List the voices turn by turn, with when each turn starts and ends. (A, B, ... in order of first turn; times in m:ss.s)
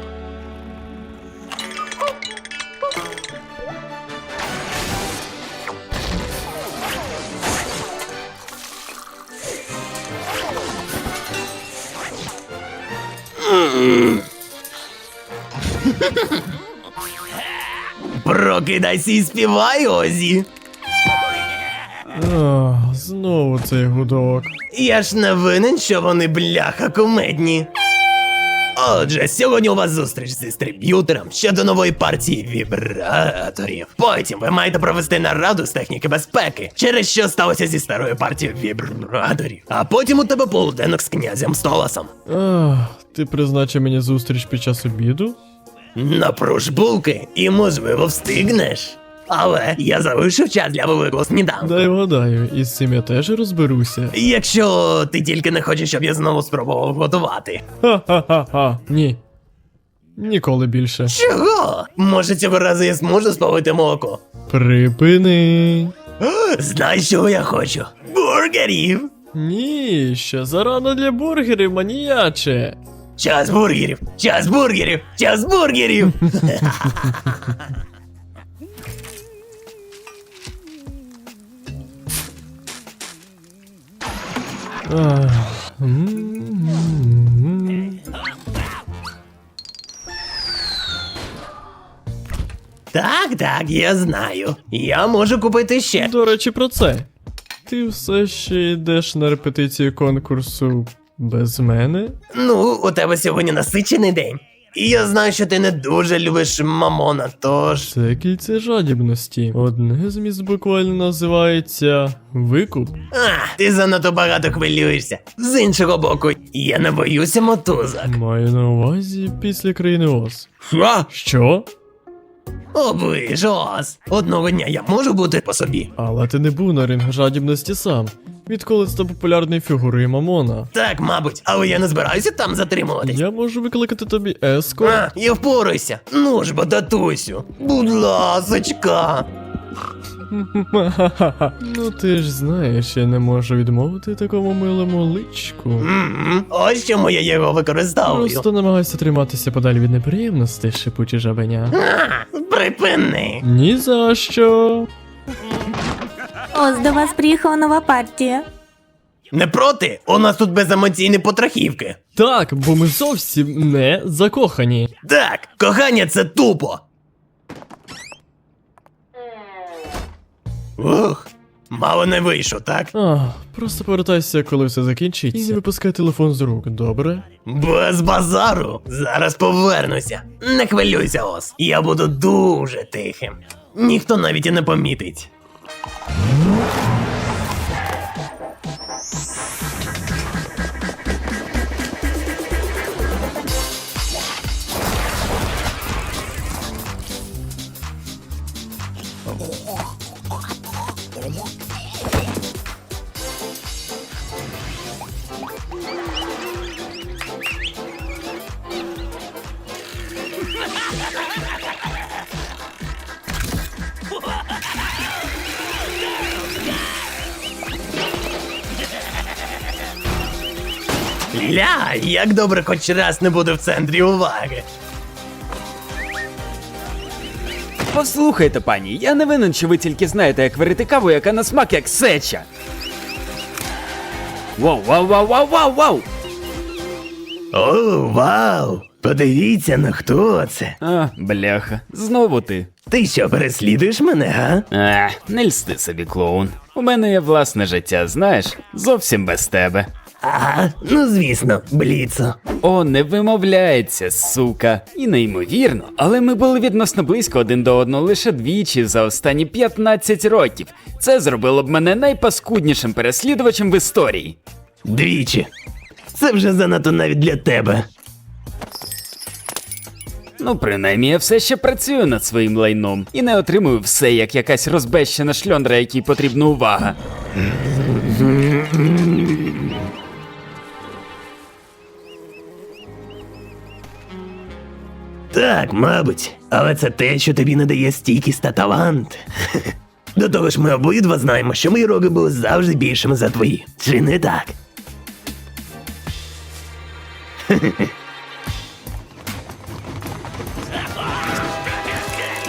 0:13.4-0:14.2 A
0:18.2-0:20.5 A
0:22.1-0:24.5 B
0:24.7-0:27.7 A
0:28.8-0:42.1 A
0:42.3-0:45.4 B
0:46.0-0:51.9 A
0:51.6-0:54.2 B
0:54.1-0:57.6 A
0:57.8-0:59.2 B
1:00.2-1:01.2 B
1:01.1-1:04.2 A
1:04.5-1:05.9 B
1:06.2-1:09.1 A
1:09.3-1:12.8 B
1:13.2-1:17.4 A
1:24.9-1:28.0 B
1:32.9-1:36.1 A
1:36.0-1:37.1 B
1:37.7-1:42.2 B
1:42.3-1:47.9 A
1:47.9-1:53.0 B
1:53.1-1:58.1 A
1:58.1-2:00.5 B
2:00.6-2:01.1 A
2:01.1-2:01.7 B
2:02.8-2:05.9 A
2:06.0-2:10.7 B
2:10.7-2:13.2 A
2:13.0-2:15.1 B
2:14.8-2:19.3 A
2:20.3-2:25.9 B
2:25.8-2:28.4 A
2:28.0-2:31.8 B
2:31.8-2:33.4 A
2:33.4-2:34.9 B
2:36.5-2:38.5 C
2:39.3-2:42.0 A
2:42.2-2:44.9 B
2:45.0-2:46.8 A
2:50.8-2:52.9 A
2:52.9-2:57.2 B
2:57.5-3:05.3 A
3:41.3-3:44.7 A
3:47.9-3:52.5 D
3:54.6-3:56.1 D
3:57.5-4:00.8 A
4:00.8-4:02.7 D
4:02.9-4:04.7 A
4:04.7-4:09.9 D
4:10.2-4:12.4 A
4:12.6-4:24.4 D
4:24.8-4:25.5 A
4:26.1-4:27.9 A
4:30.4-4:37.0 D
4:38.1-4:39.3 A
4:45.3-4:54.6 A
4:57.5-4:57.9 A